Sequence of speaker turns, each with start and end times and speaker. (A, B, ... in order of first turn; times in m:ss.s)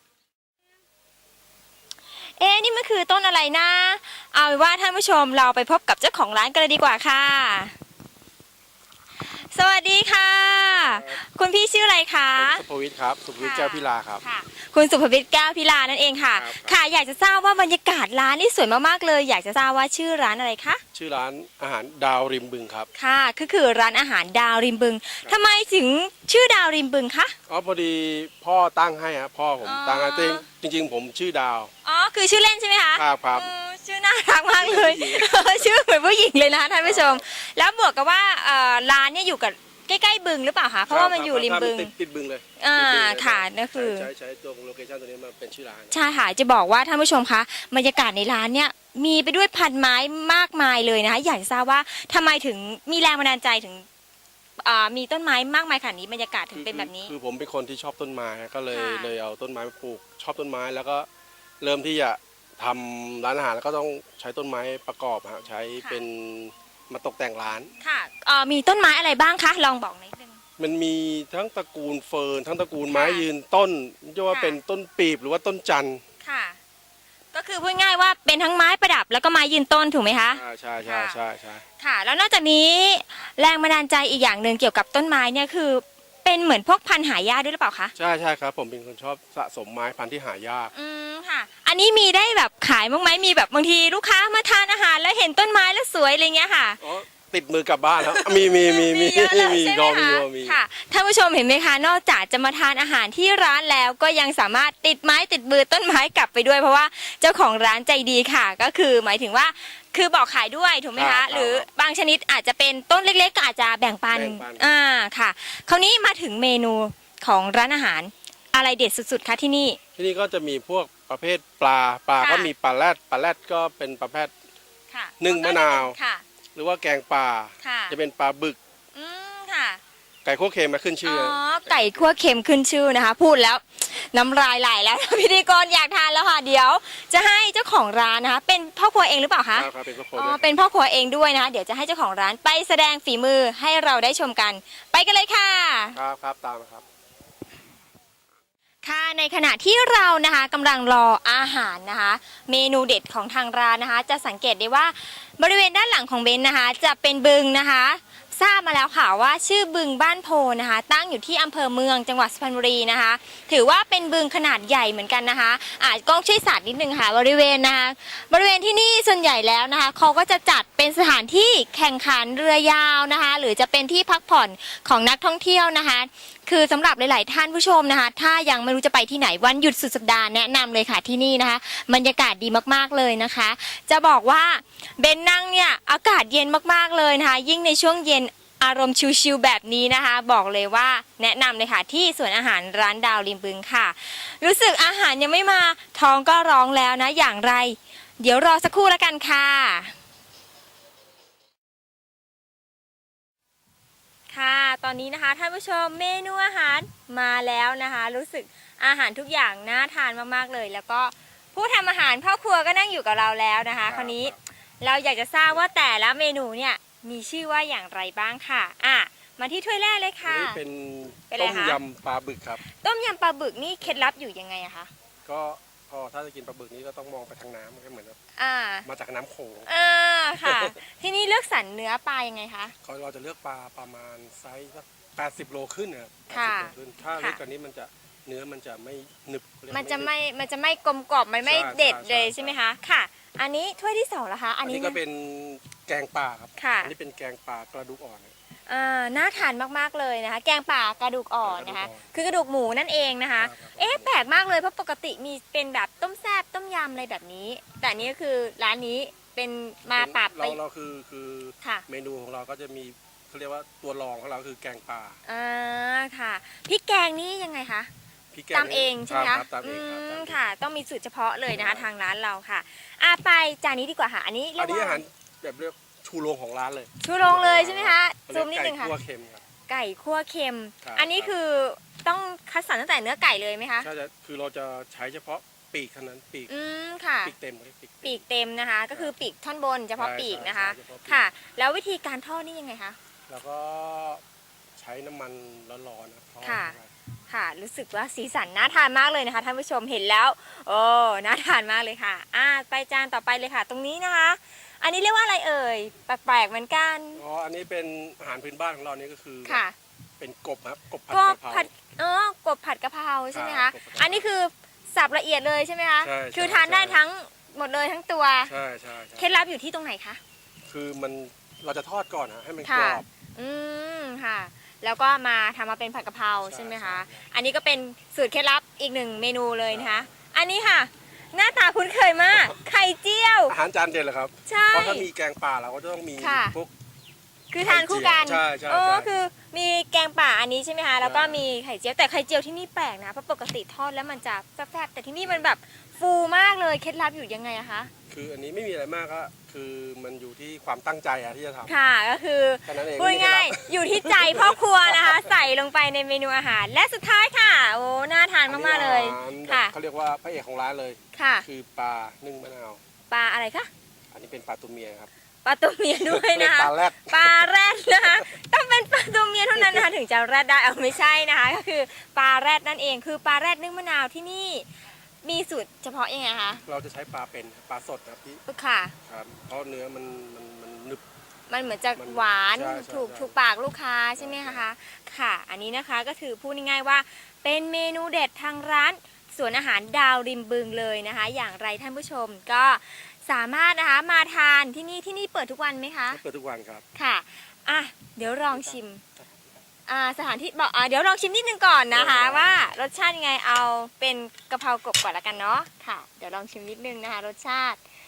0:02.2-0:07.8 A
0:09.2-0:12.6 A
0:10.8-0:11.2 B
0:12.3-0:14.2 B
0:13.4-0:20.8 A
0:16.3-0:16.8 B
0:20.9-0:22.9 B
0:22.9-0:27.3 A
0:27.5-0:31.7 B
0:29.6-0:30.4 A
0:31.8-0:41.9 A
0:32.9-0:33.5 B
0:34.6-0:35.7 B
0:36.8-0:37.2 B
0:40.9-0:46.0 B
0:42.6-0:44.1 A
0:45.9-0:53.8 A
0:54.6-0:57.1 A
0:56.5-1:01.1 B
0:58.7-0:59.1 A
1:01.6-1:07.7 B
1:05.8-1:06.0 A
1:07.8-1:10.4 A
1:10.6-1:16.0 B
1:12.9-1:13.2 A
1:14.3-1:14.6 A
1:16.2-1:16.6 A
1:17.3-1:21.2 A
1:20.3-1:21.6 B
1:21.8-1:27.9 A
1:28.0-1:30.7 B
1:30.7-1:36.8 A
1:36.8-1:40.6 B
1:38.0-1:59.8 A
1:50.9-1:51.6 B
1:54.1-1:54.7 B
2:00.0-2:04.3 B
2:02.2-2:02.5 A
2:04.9-2:06.2 A
2:05.2-2:06.0 B
2:06.5-2:08.6 B
2:07.6-2:08.0 A
2:08.9-2:09.8 A
2:10.2-2:12.1 B
2:11.0-2:26.0 A
2:19.5-2:20.5 B
2:25.9-2:26.8 B
2:28.8-3:19.9 A
3:24.3-3:40.6 A
3:33.8-3:34.4 B
3:40.2-3:42.6 B
3:41.3-3:41.8 A
3:42.6-3:44.9 A
3:45.2-3:48.2 B
3:48.4-3:48.8 A
3:48.8-3:49.7 B
3:49.6-3:52.7 A
3:50.4-3:50.8 B
3:52.8-4:00.1 B
3:56.3-3:57.4 A
3:59.7-4:05.0 A
4:01.4-4:02.6 B
4:04.6-4:08.3 B
4:06.6-4:06.9 A
4:08.7-4:20.6 A
4:11.4-4:12.0 B
4:13.4-4:14.2 B
4:19.9-4:25.2 B
4:25.2-4:27.9 A
4:28.3-4:30.4 B
4:28.5-4:35.0 A
4:31.5-4:31.9 B
4:34.6-4:39.4 B
4:37.0-4:38.9 A
4:39.7-4:43.9 A
4:40.8-4:41.4 B
4:43.8-4:46.5 B
4:46.5-4:47.3 A
4:47.2-4:48.2 B
4:48.0-4:53.0 A
4:50.0-4:51.2 B
4:53.3-4:54.2 B
4:54.8-4:56.9 B
4:56.4-4:56.8 A
4:57.3-5:07.2 A
5:07.2-5:09.6 B
5:09.4-5:09.7 A
5:10.2-5:11.7 B
5:11.1-5:18.5 A
5:13.3-5:14.3 B
5:16.0-5:17.0 B
5:18.4-5:19.3 B
5:19.2-5:20.2 A
5:20.6-5:23.0 B
5:22.6-5:33.6 A
5:26.4-5:27.2 B
5:29.7-5:30.1 B
5:33.5-5:36.7 B
5:34.4-5:35.1 A
5:36.2-5:36.6 A
5:37.5-5:47.9 A
5:37.6-5:39.1 B
5:41.0-5:41.5 B
5:48.1-5:51.7 B
5:51.6-5:59.7 A
5:52.6-5:55.4 B
5:58.5-6:02.8 B
6:01.1-6:01.4 A
6:03.1-6:03.7 A
6:04.1-6:05.1 B
6:05.4-6:14.7 A
6:06.0-6:08.3 B
6:09.6-6:09.8 B
6:15.2-6:16.6 A
6:16.6-6:18.4 B
6:18.5-6:18.9 A
6:19.0-6:21.0 B
6:21.5-6:36.2 A
6:22.0-6:23.4 B
6:24.2-6:24.6 B
6:36.1-6:36.8 B
6:36.9-6:39.0 A
6:38.3-6:39.4 B
6:39.9-6:47.8 A
6:41.9-6:42.7 B